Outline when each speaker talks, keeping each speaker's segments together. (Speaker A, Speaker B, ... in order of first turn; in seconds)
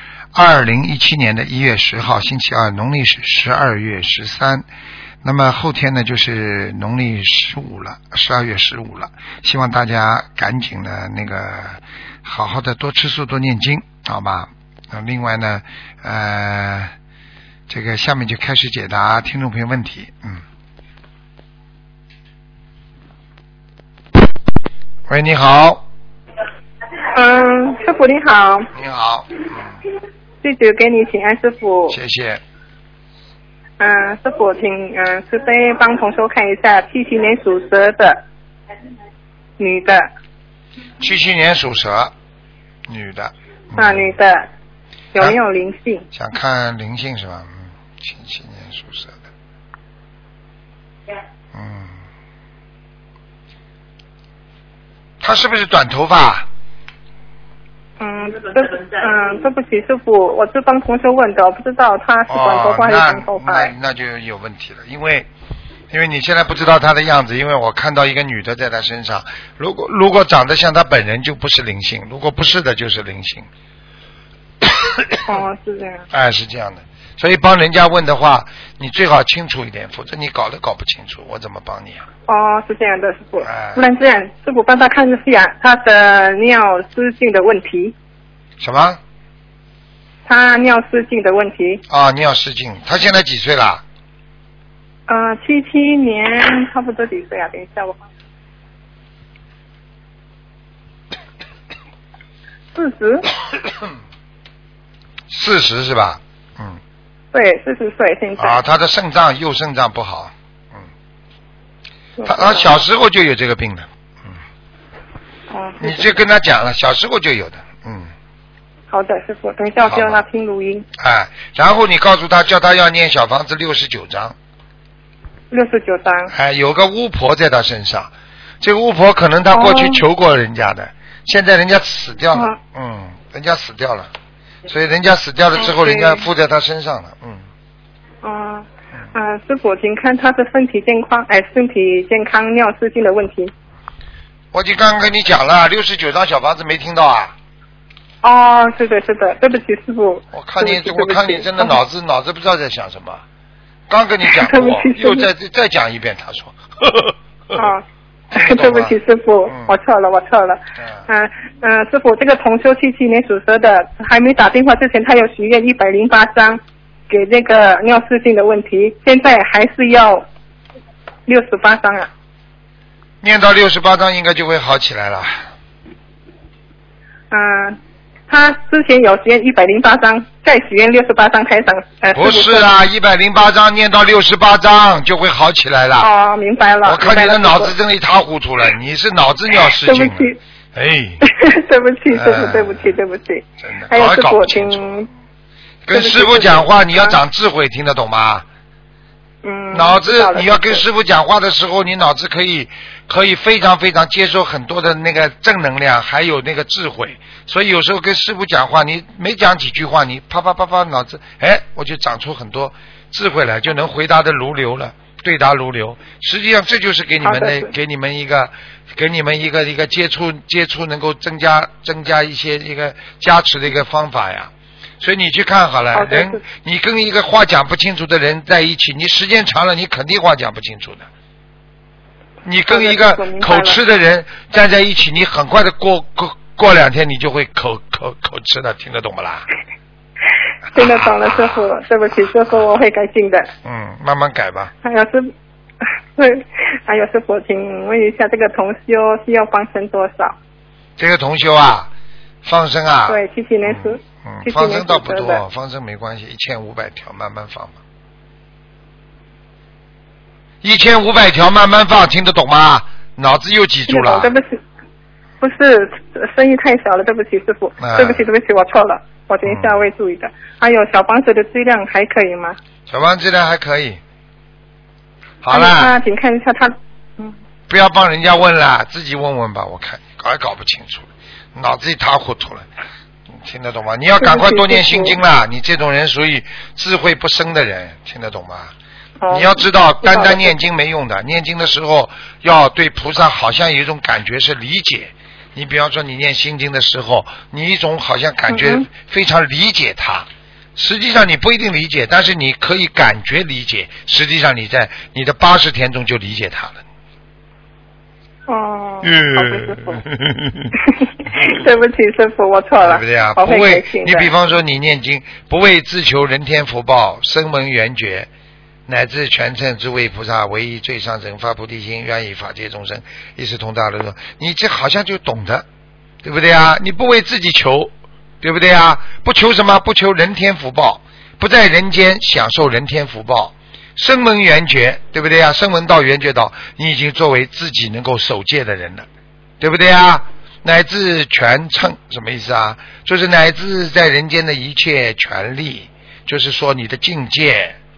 Speaker A: 0.3-4.6, 5.2-16.9, 17.7-20.4, 25.1-25.8, 28.7-29.8, 31.9-32.4, 41.0-42.1, 42.9-44.1, 46.1-49.2, 51.5-51.9, 55.2-56.5, 62.3-65.3, 65.9-73.5, 74.6-75.3, 76.1-82.0, 83.4-83.8, 88.6-89.0, 91.9-93.8, 105.3-106.8, 108.4-110.8, 112.2-114.3, 115.8-118.1, 119.8-120.2, 121.0-124.3, 126.3-134.1, 134.7-137.4, 144.5-147.3, 150.3-153.2, 153.9-157.7, 158.3-158.9, 159.5-159.7, 173.2-175.4, 182.1-186.1, 186.8-191.2, 192.1-192.9, 193.6-194.9, 195.8-198.4, 199.7-231.1, 232.4-239.4, 240.7-241.6, 243.6-244.7, 251.0-251.9, 252.4-257.8, 260.6-264.3, 267.8-268.2, 269.4-269.8, 272.9-274.0, 275.4-275.9, 277.7-282.6, 283.3-288.7, 289.3-306.8, 309.0-310.7, 312.8-318.3, 318.9-325.6, 326.2-339.1, 339.6-347.8
Speaker B: 27.1-28.7, 30.4-32.0, 33.8-38.2, 39.6-40.1, 43.7-44.5, 45.1-46.0, 58.0-63.7, 75.2-76.0, 82.3-87.9, 90.2-91.8, 95.1-98.0, 102.7-103.3, 107.3-108.6, 112.2-112.7, 115.5-116.1, 118.9-120.8, 125.5-126.3, 129.5-130.0, 135.6-136.3, 138.2-143.5, 148.2-151.8, 154.2-155.3, 157.5-157.8, 158.3-170.2, 171.3-172.1, 177.3-182.7, 186.0-187.8, 189.6-190.4, 191.2-195.1, 195.9-197.2, 199.4-200.8, 217.2-217.7, 225.9-226.4, 232.7-233.8, 240.7-243.5, 244.8-245.3, 246.2-250.3, 253.1-255.4, 263.9-264.6, 265.4-272.6, 275.5-277.3, 284.2-285.2, 289.2-290.5, 298.5-298.9, 308.5-310.0, 311.2-314.3